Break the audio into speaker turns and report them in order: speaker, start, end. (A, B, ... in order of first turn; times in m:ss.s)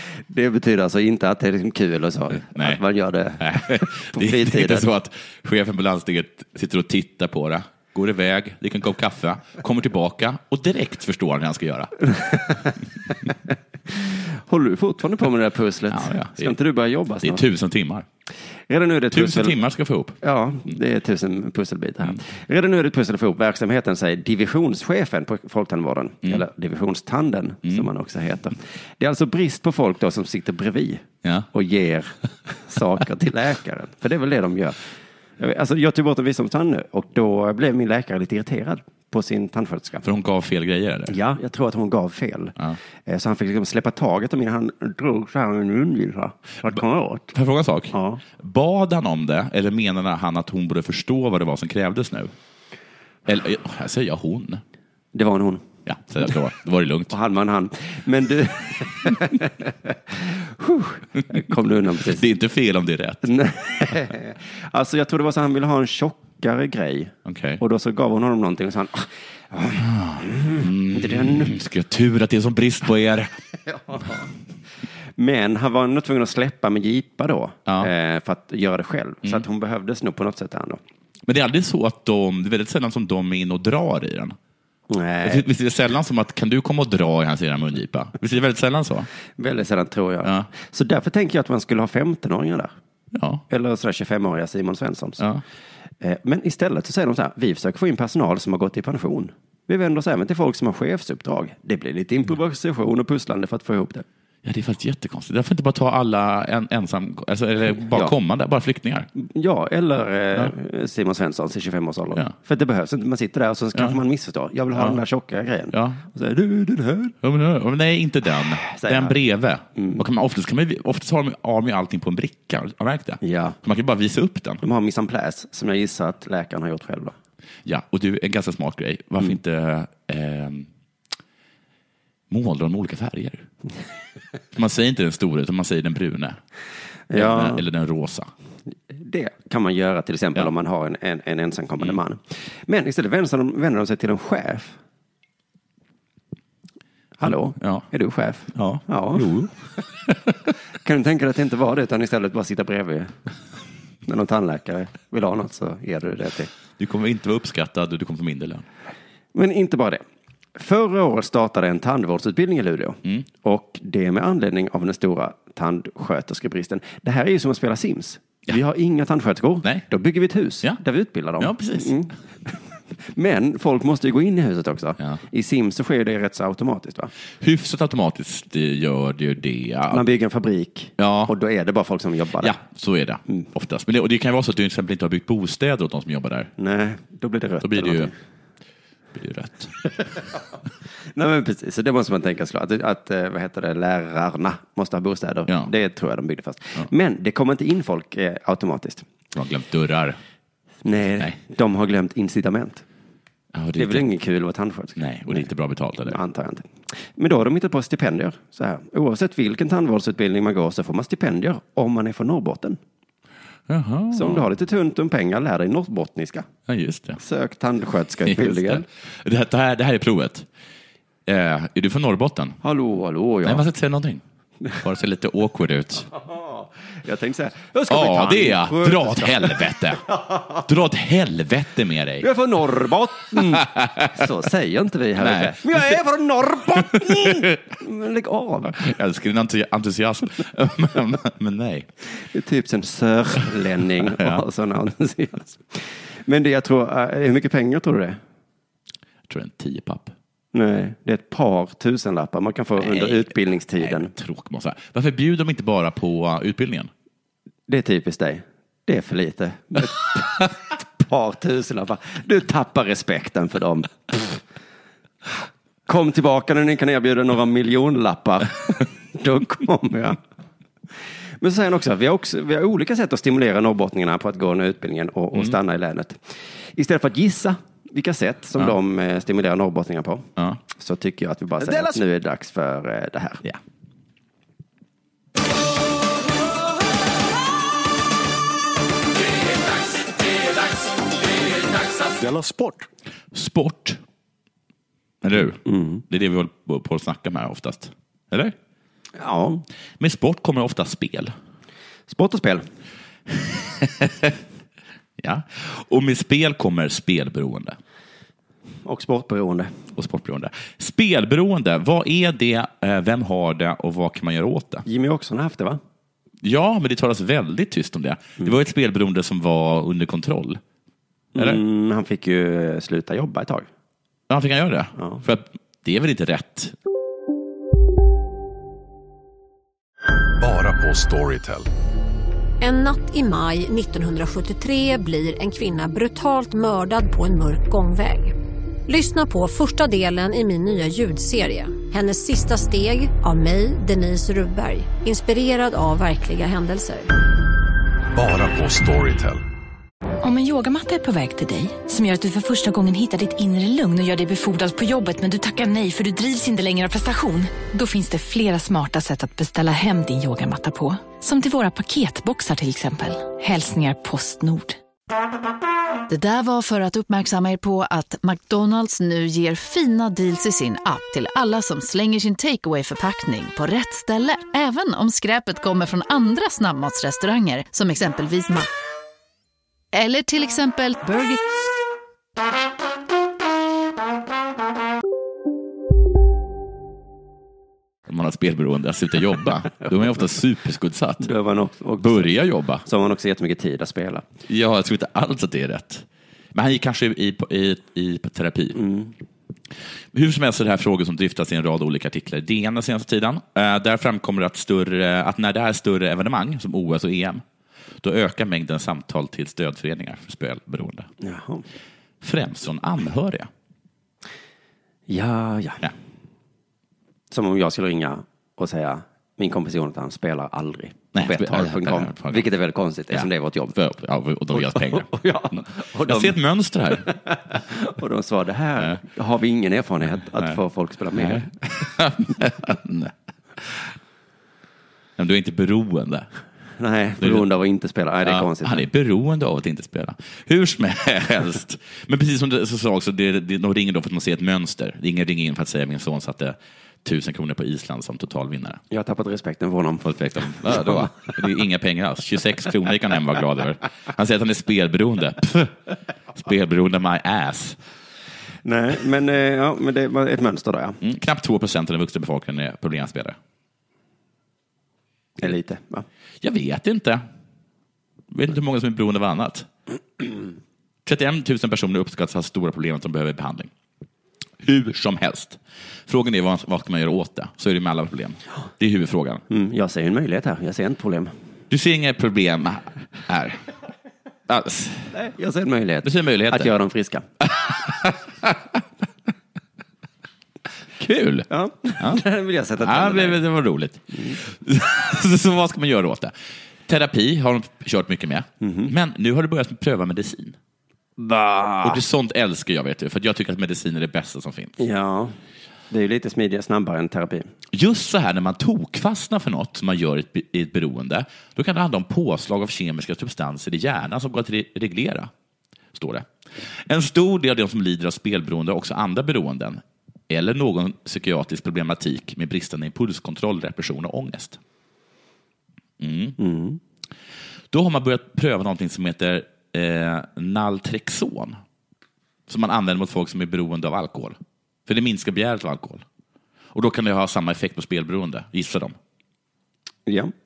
0:00.3-0:04.9 A
0:02.4-0:02.8 B
0:03.4-0:12.0 B
0:12.1-0:12.8 A
0:13.9-0:17.4 A
0:15.9-0:16.6 B
0:17.2-0:18.1 B
0:18.7-0:19.6 A
0:19.1-0:20.2 B
0:20.2-0:34.9 A
0:35.4-0:40.1 A
0:40.0-0:41.2 B
0:41.1-0:42.5 A
0:43.1-0:47.3 A
0:47.3-0:52.3 B
0:47.9-0:48.2 A
0:53.2-0:54.6 B
0:55.1-0:55.6 A
0:55.9-0:57.1 B
0:57.1-1:02.2 A
1:02.0-1:03.3 B
1:03.2-1:11.5 A
1:07.2-1:07.6 B
1:09.8-1:13.3 B
1:13.7-1:14.3 A
1:15.2-1:20.8 A
1:21.2-1:24.4 B
1:24.9-1:25.5 A
1:25.2-1:29.1 B
1:29.4-1:32.7 A
1:33.1-1:33.4 B
1:33.5-1:35.2 A
1:36.0-1:44.0 A
1:44.4-1:49.1 B
1:49.1-1:57.2 A
1:54.7-1:55.0 B
1:55.7-1:56.0 B
1:57.2-2:04.6 B
1:58.6-1:59.2 A
1:59.8-2:00.0 A
2:03.2-2:03.6 A
2:04.6-2:07.1 A
2:07.6-2:10.7 B
2:12.3-2:13.4 B
2:14.5-2:16.4 B
2:17.1-2:17.6 A
2:17.1-2:18.3 B
2:18.9-2:24.8 A
2:27.2-2:29.3 A
2:27.2-2:27.9 B
2:28.5-2:29.5 B
2:30.1-2:30.3 B
2:30.8-2:33.2 A
2:34.1-2:36.5 A
2:36.8-2:38.7 B
2:39.3-2:40.0 A
2:40.6-2:52.6 A
2:51.4-2:52.0 B
2:53.1-2:57.1 A
2:57.4-3:00.0 B
2:59.9-3:02.6 A
3:01.0-3:01.3 B
3:02.4-3:06.5 B
3:06.6-3:08.1 A
3:07.6-3:08.1 B
3:09.1-3:09.7 B
3:11.2-3:19.0 A
3:19.3-3:20.2 B
3:20.8-3:22.8 A
3:23.5-3:24.1 B
3:23.8-3:25.5 A
3:25.0-3:26.2 B
3:26.1-3:32.8 A
3:33.7-3:34.5 B
3:34.1-3:36.5 A
3:36.7-3:37.2 B
3:37.2-3:38.8 A
3:38.2-3:40.5 B
3:41.2-3:42.6 B
3:42.6-3:43.6 A
3:43.4-3:44.2 B
3:44.8-3:46.1 B
3:46.1-3:50.6 A
3:47.9-3:50.1 B
3:50.6-3:52.3 B
3:52.2-3:58.8 A
3:53.6-3:54.1 B
3:55.2-3:56.0 B
3:57.0-3:57.6 B
3:58.8-4:01.9 B
4:02.1-4:08.2 A
4:04.0-4:04.4 B
4:09.3-4:10.1 B
4:10.5-4:14.1 A
4:12.8-4:16.9 B
4:17.7-4:24.4 A
4:25.9-4:30.2 A
4:31.4-4:43.4 A
4:52.2-4:52.8 C
4:53.3-4:54.0 B
4:55.2-4:58.5 B
4:55.6-4:56.0 A
4:59.2-4:59.6 A
5:00.0-5:01.3 B
5:02.1-5:02.6 A
5:03.4-5:04.3 B
5:05.2-5:07.8 B
5:08.8-5:09.7 A
5:10.0-5:14.8 B
5:14.8-5:15.8 A
5:16.4-5:20.6 B
5:21.3-5:23.7 A
5:21.4-5:21.6 B
5:24.3-5:26.8 B
5:25.0-5:25.2 A
5:30.4-5:31.7 C
5:32.6-5:38.3 D
5:38.9-5:47.1 D
5:48.1-5:49.4 C
5:50.2-6:04.8 E
6:06.1-6:18.7 F
6:19.9-6:21.4 F
6:28.1-6:31.3 B
6:31.2-6:34.2 A
6:32.0-6:32.8 B
6:34.5-6:38.8 B
6:38.8-6:39.1 A
6:40.1-6:47.4 B
6:48.0-6:51.1 B
6:51.2-6:51.6 A
6:52.2-6:53.5 B
6:55.1-6:55.9 A
6:57.3-7:03.8 A
7:01.1-7:02.5 B
7:03.1-7:05.1 B
7:04.5-7:06.4 A
7:06.0-7:07.1 B
7:07.2-7:11.5 A
7:11.2-7:13.9 B
7:15.2-7:16.3 B
7:16.8-7:18.9 A
7:17.2-7:17.5 B
7:18.2-7:28.8 B
7:28.9-7:31.2 A
7:30.0-7:35.8 B
7:36.4-7:37.8 B
7:38.6-7:41.0 A
7:41.0-7:43.4 B
7:45.4-7:46.0 A
7:46.4-7:47.2 B
7:48.3-7:49.7 B
7:51.0-7:53.7 B
7:54.6-7:59.4 B
7:59.5-8:01.3 A
8:01.7-8:03.6 B
8:04.5-8:05.1 B
8:05.1-8:07.2 A
8:06.0-8:06.8 B
8:07.4-8:08.6 B
8:11.0-8:11.5 B
8:11.5-8:13.4 A
8:12.8-8:16.3 B
8:16.9-8:20.6 B
8:18.6-8:18.9 A
8:21.2-8:22.0 A
8:21.8-8:24.8 B
8:24.8-8:25.3 A
8:25.9-8:27.5 A
8:27.7-8:35.3 B
8:35.9-8:36.3 B
8:36.8-8:44.6 B
8:46.0-8:46.4 B
8:46.4-8:46.8 A
8:47.7-8:51.6 B
8:52.5-8:56.0 B
8:56.7-8:59.0 B
9:00.1-9:00.3 A